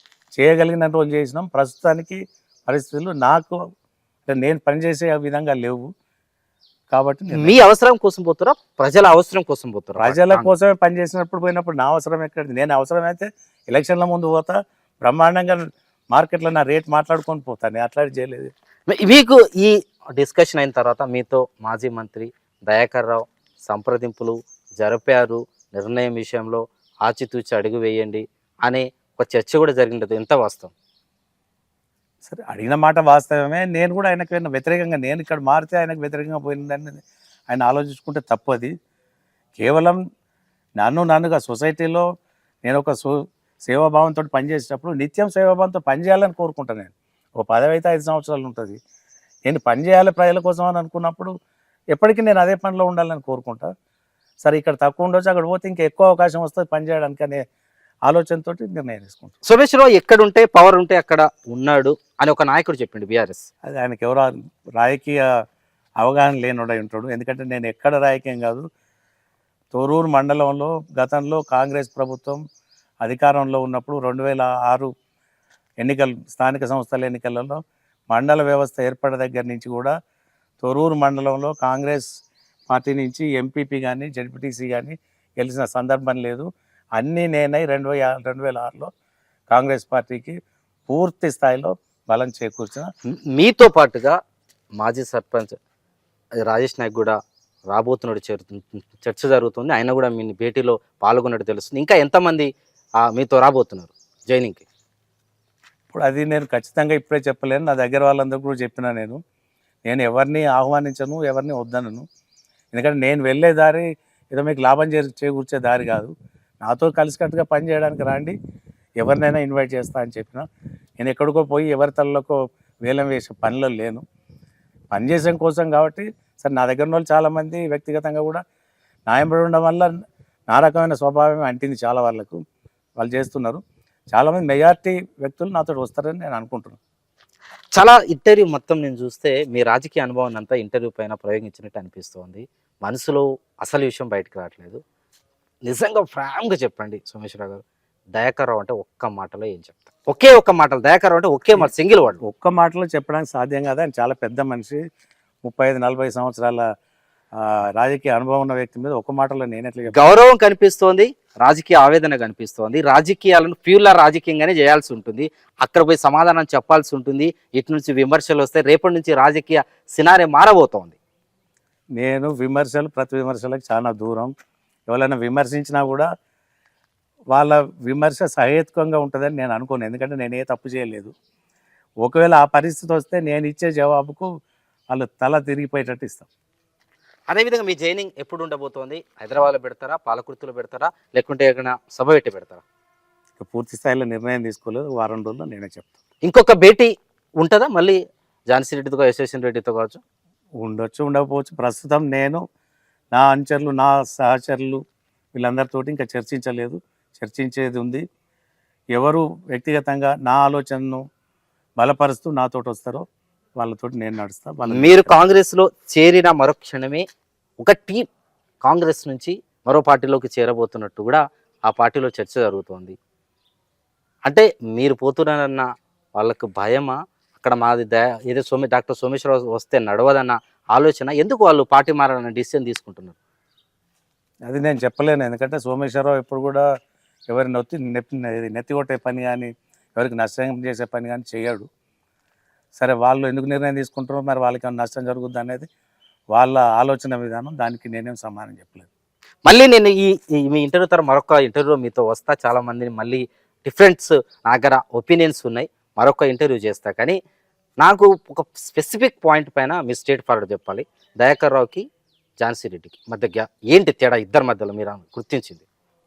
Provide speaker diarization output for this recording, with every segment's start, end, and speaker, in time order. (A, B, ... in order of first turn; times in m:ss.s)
0:00.4-0:03.6 A
0:04.3-0:05.9 A
0:06.9-0:07.6 A
0:07.3-0:10.5 B
0:10.0-0:18.5 A
0:18.9-0:30.7 B
0:32.3-0:38.7 A
0:39.6-0:40.0 A
0:40.8-0:42.1 A
0:42.6-0:48.8 A
0:49.5-0:51.3 A
0:51.9-0:53.7 A
0:54.4-0:57.4 A
0:58.1-0:59.4 A
0:59.4-1:03.5 B
1:03.6-1:05.2 A
1:06.0-1:08.7 A
1:09.7-1:12.4 A
1:13.0-1:14.9 A
1:15.8-1:17.6 A
1:18.1-1:20.0 A
1:20.6-1:22.1 A
1:22.7-1:28.9 A
1:29.5-1:30.4 A
1:30.9-1:32.9 A
1:33.3-1:34.2 B
1:34.8-1:35.6 B
1:36.4-1:37.2 B
1:37.7-1:42.5 B
1:43.0-1:44.6 B
1:45.9-1:49.2 A
1:49.9-1:52.1 A
1:52.7-1:58.4 A
1:59.0-2:00.5 A
2:01.0-2:04.0 A
2:04.9-2:08.4 A
2:09.1-2:09.9 A
2:10.5-2:12.4 A
2:13.0-2:13.6 A
2:14.1-2:16.8 A
2:17.8-2:24.8 B
2:25.7-2:27.6 B
2:28.2-2:32.2 B
2:32.2-2:34.8 A
2:35.4-2:36.7 A
2:37.4-2:40.0 A
2:39.9-2:51.0 B
2:52.0-2:54.3 A
2:54.9-2:56.1 A
2:57.3-3:01.1 A
3:02.0-3:04.3 A
3:04.9-3:06.3 A
3:07.3-3:12.6 B
3:13.4-3:15.9 A
3:16.2-3:20.0 B
3:20.6-3:22.4 A
3:23.1-3:24.8 A
3:25.4-3:28.0 A
3:29.0-3:31.0 A
3:31.8-3:33.0 A
3:33.6-3:35.1 A
3:34.7-3:37.0 B
3:37.6-3:38.1 B
3:38.6-3:43.0 B
3:44.3-3:53.2 B
3:54.5-3:56.6 A
3:57.3-4:01.7 A
4:02.8-4:05.7 A
4:06.3-4:08.9 A
4:09.5-4:17.2 B
4:17.8-4:21.9 B
4:22.4-4:25.6 B